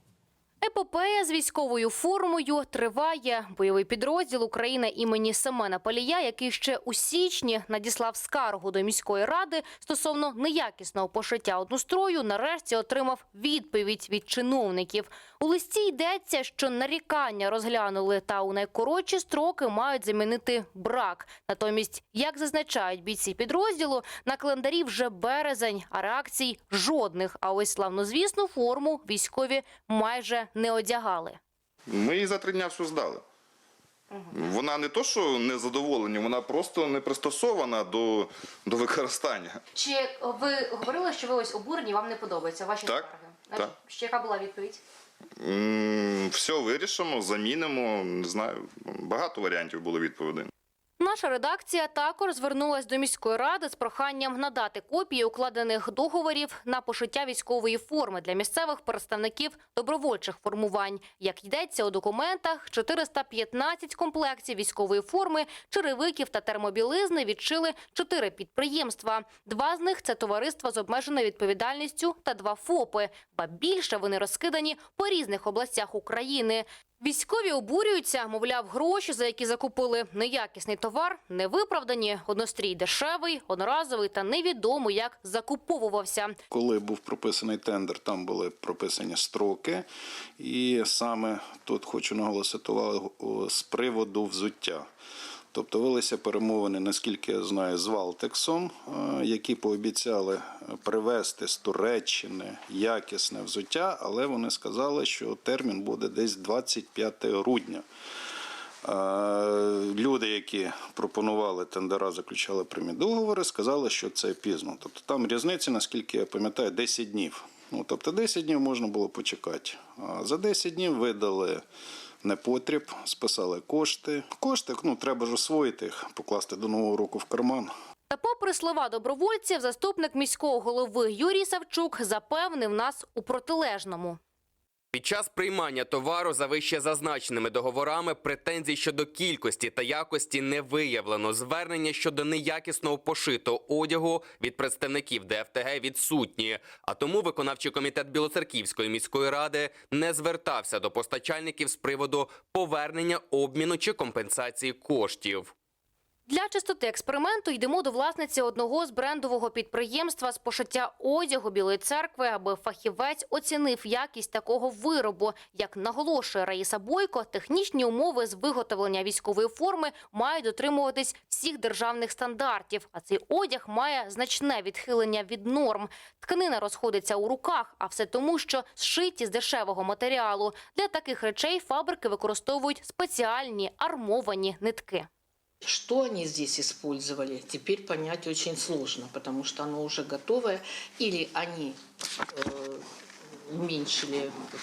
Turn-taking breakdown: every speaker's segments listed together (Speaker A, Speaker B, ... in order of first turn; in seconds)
Speaker A: 0.6-31.4, 39.7-44.8, 51.0-86.4, 128.1-134.2, 156.3-185.1
Speaker B: 31.9-33.2, 34.3-39.6, 42.9-43.7, 45.4-50.5
Speaker C: 86.5-89.8, 90.4-94.9, 95.5-107.8, 108.8-121.6, 122.2-127.7
Speaker D: 134.9-155.5
Speaker E: 185.6-191.8, 192.3-192.8, 193.5-194.3